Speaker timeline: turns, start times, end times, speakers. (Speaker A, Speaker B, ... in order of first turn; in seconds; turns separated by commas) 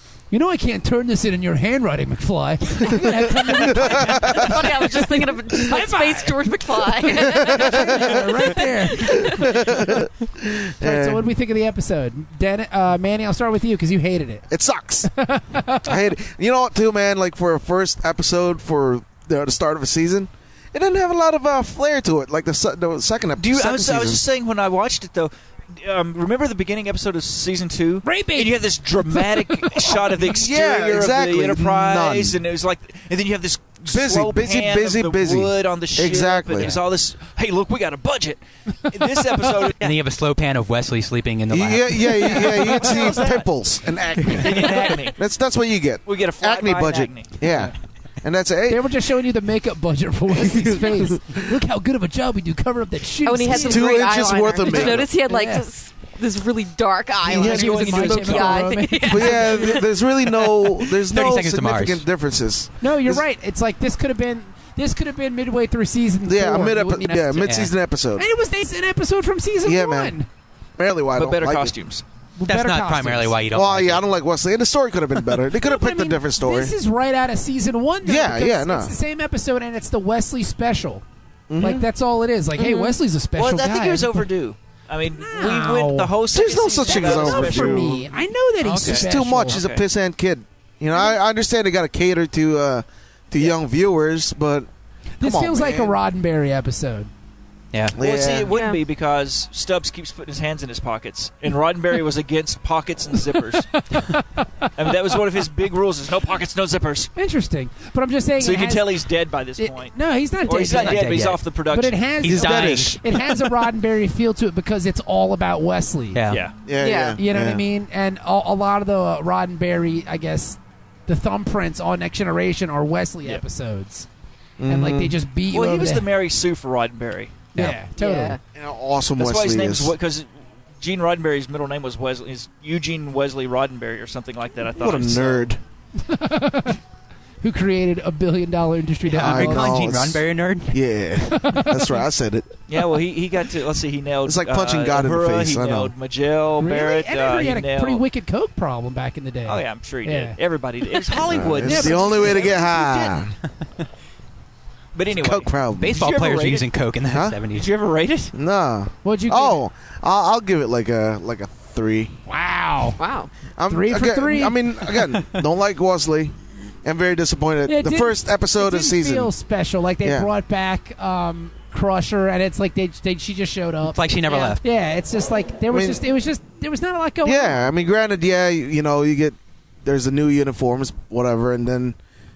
Speaker A: 0.3-9.8, Speaker B: 3.5-4.5, Speaker C: 4.2-9.5, Speaker B: 7.1-8.2, Speaker B: 9.0-11.3, Speaker A: 10.8-14.5, Speaker B: 14.5-15.1, Speaker A: 15.0-15.9, Speaker B: 15.8-24.2, Speaker D: 23.4-40.0, Speaker A: 28.0-30.1, Speaker B: 30.2-32.4, Speaker B: 33.9-36.7, Speaker E: 39.7-42.5, Speaker B: 41.5-48.8, Speaker D: 42.2-43.5, Speaker E: 44.2-44.9, Speaker D: 44.3-45.2, Speaker D: 46.0-47.3, Speaker A: 48.7-54.0, Speaker B: 50.4-51.4, Speaker C: 53.2-59.9, Speaker B: 53.5-55.1, Speaker A: 54.7-55.7, Speaker B: 57.2-63.2, Speaker A: 57.3-59.9, Speaker D: 57.5-58.5, Speaker E: 60.9-62.0, Speaker A: 62.8-70.3, Speaker B: 66.2-68.2, Speaker E: 67.5-67.7, Speaker B: 69.6-70.1, Speaker B: 70.8-71.7, Speaker D: 71.2-72.0, Speaker A: 72.4-73.4, Speaker E: 72.5-74.0, Speaker B: 73.5-76.7, Speaker A: 75.5-81.0, Speaker B: 78.0-78.9, Speaker B: 81.5-81.9, Speaker A: 81.6-84.2, Speaker C: 82.5-83.0, Speaker D: 83.3-88.1, Speaker A: 85.1-89.6, Speaker B: 86.3-88.0, Speaker D: 88.6-89.8, Speaker B: 88.8-94.7, Speaker A: 95.2-97.1, Speaker B: 95.2-95.9, Speaker B: 97.9-98.5, Speaker D: 98.0-103.7, Speaker C: 98.5-98.8, Speaker A: 103.7-104.7, Speaker D: 104.8-107.1, Speaker A: 107.2-108.9, Speaker D: 108.4-112.0, Speaker A: 109.6-116.2, Speaker E: 110.7-111.4, Speaker E: 112.2-113.0, Speaker B: 112.3-113.0, Speaker E: 116.1-116.4, Speaker D: 116.3-116.5, Speaker B: 116.6-117.6, Speaker C: 116.8-117.2, Speaker A: 117.2-124.1, Speaker B: 124.6-125.2, Speaker A: 124.7-126.1, Speaker D: 125.5-127.5, Speaker A: 127.5-128.4, Speaker C: 128.0-128.4, Speaker B: 128.5-129.9, Speaker D: 129.2-130.3, Speaker D: 130.8-135.5, Speaker B: 134.7-135.6, Speaker A: 135.9-136.8, Speaker A: 137.4-139.8, Speaker E: 139.1-140.8, Speaker B: 139.1-142.5, Speaker A: 141.2-142.0, Speaker D: 142.7-148.0, Speaker B: 144.2-145.9, Speaker A: 146.6-150.4, Speaker D: 149.4-153.2, Speaker B: 151.3-153.3, Speaker A: 151.6-152.5, Speaker D: 154.9-156.7, Speaker B: 155.1-156.0, Speaker E: 155.8-157.7, Speaker B: 157.1-157.4, Speaker D: 157.5-158.3, Speaker B: 158.3-162.2, Speaker A: 159.0-159.6, Speaker A: 162.3-163.0, Speaker C: 163.0-163.3, Speaker B: 163.6-169.3, Speaker A: 163.7-164.6, Speaker A: 167.7-174.0, Speaker B: 170.0-170.3, Speaker E: 173.8-174.6, Speaker C: 174.3-174.6, Speaker A: 174.6-177.6, Speaker B: 175.7-176.0, Speaker B: 177.2-182.0